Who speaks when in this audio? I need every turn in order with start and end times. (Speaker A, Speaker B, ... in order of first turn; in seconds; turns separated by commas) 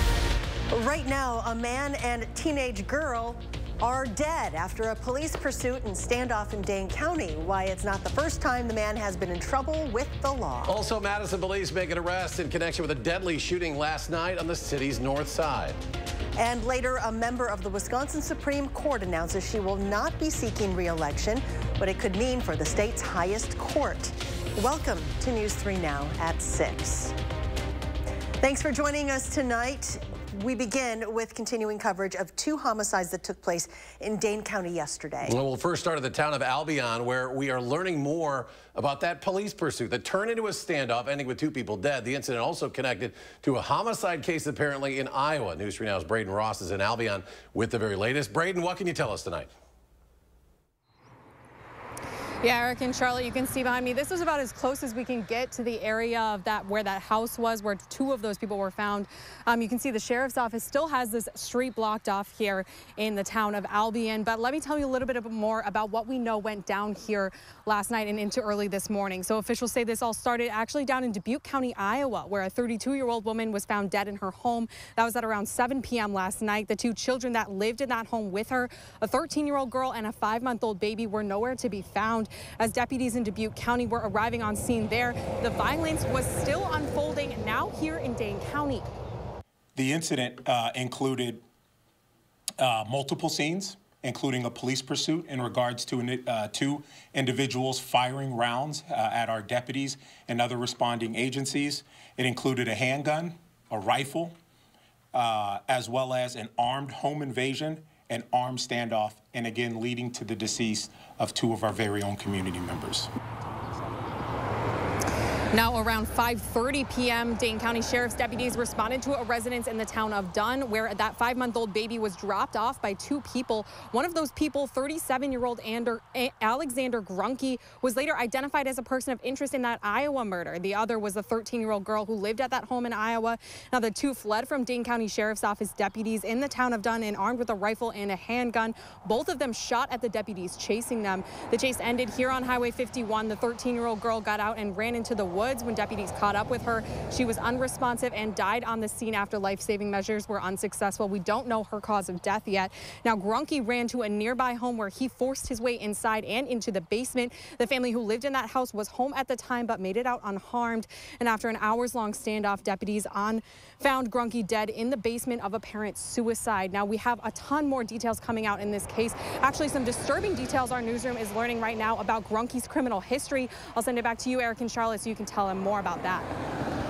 Speaker A: 0.7-10.8, Speaker B: 10.7-15.8, Speaker A: 16.4-27.1, Speaker A: 28.4-35.4, Speaker B: 35.2-49.5, Speaker C: 52.4-88.9, Speaker D: 89.8-91.4, Speaker D: 92.6-104.3, Speaker D: 105.1-113.1, Speaker C: 115.5-176.3